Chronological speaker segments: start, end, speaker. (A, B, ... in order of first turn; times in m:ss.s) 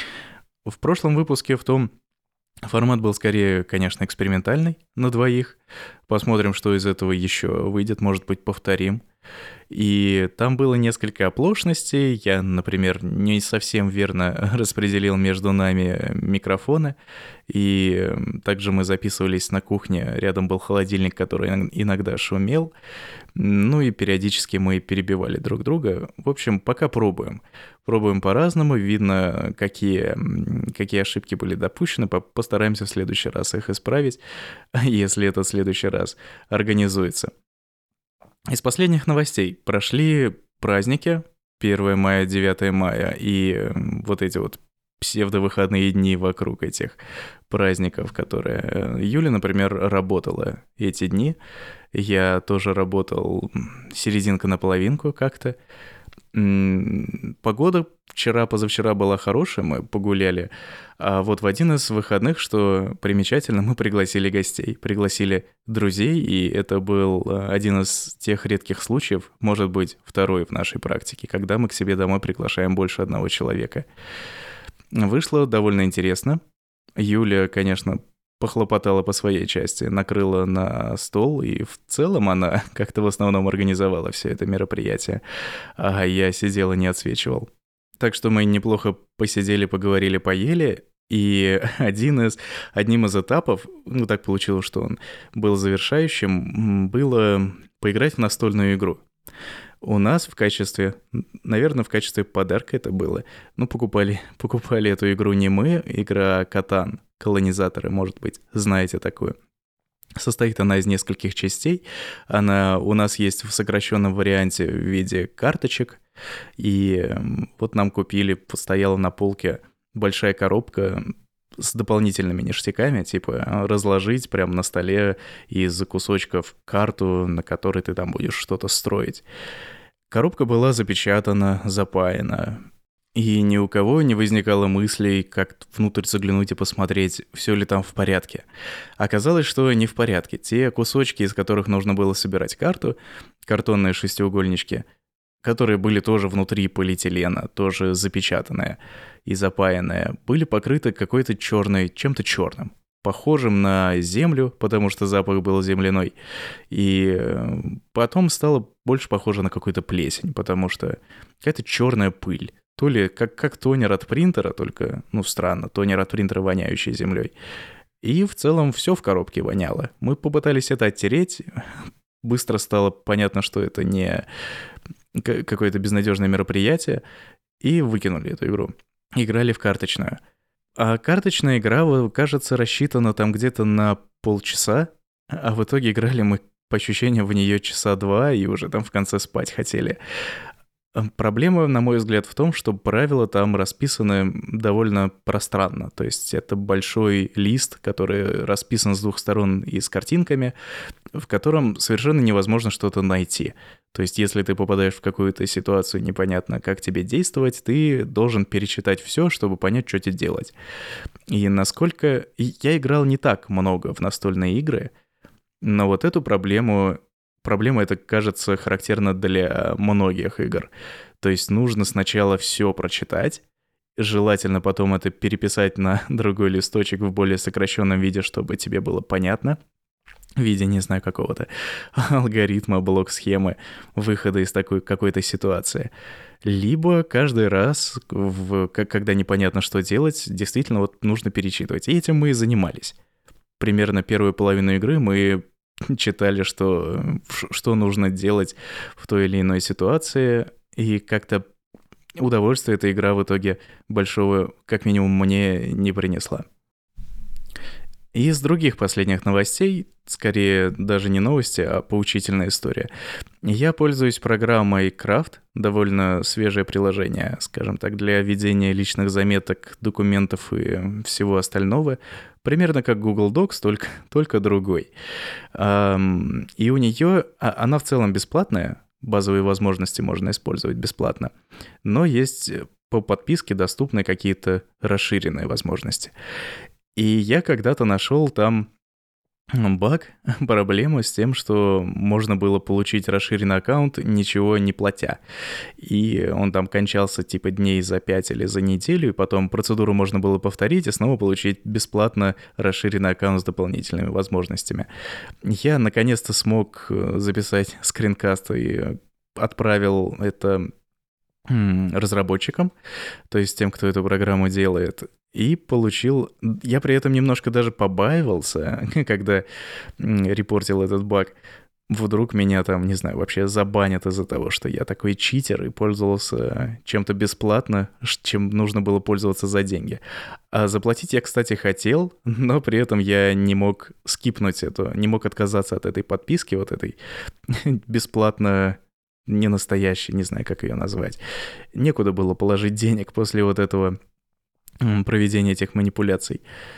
0:00.6-0:01.9 A
0:02.6-0:09.0 A
0:09.7-0:17.0 A
0:17.5-0:22.7 A
0:23.4-0:34.2 A
0:34.7-0:37.3 A
0:38.5-0:51.4 A
0:51.9-0:55.6 A
0:56.3-1:13.8 A
1:14.9-1:16.4 A
1:17.0-1:25.2 A
1:25.8-1:39.0 A
1:39.8-1:49.3 A
1:50.2-1:56.0 A
1:56.6-2:09.2 A
2:10.1-2:12.6 A
2:13.1-2:18.4 A
2:19.0-2:24.8 A
2:25.4-2:36.1 A
2:36.7-2:47.3 A
2:48.0-2:51.4 A
2:52.2-2:54.2 A
2:55.1-2:57.0 A
2:57.6-3:00.2 A
3:00.8-3:10.0 A
3:10.9-3:20.5 A
3:21.1-3:30.5 A
3:31.3-3:34.9 A
3:35.6-3:43.4 A
3:44.0-3:49.6 A
3:50.4-3:55.9 A
3:56.4-4:03.0 A
4:03.6-4:11.4 A
4:12.2-4:16.4 A
4:18.1-4:22.9 A
4:23.4-4:34.9 A
4:35.5-4:41.3 A
4:41.8-4:46.1 A
4:46.9-4:48.7 A
4:49.5-4:55.2 A
4:55.8-5:04.9 A
5:05.4-5:10.7 A
5:11.5-5:12.7 A
5:13.3-5:19.4 A
5:20.0-5:21.3 A
5:21.9-5:37.0 A
5:37.5-5:41.2 A
5:41.7-5:44.0 A
5:44.8-5:46.4 A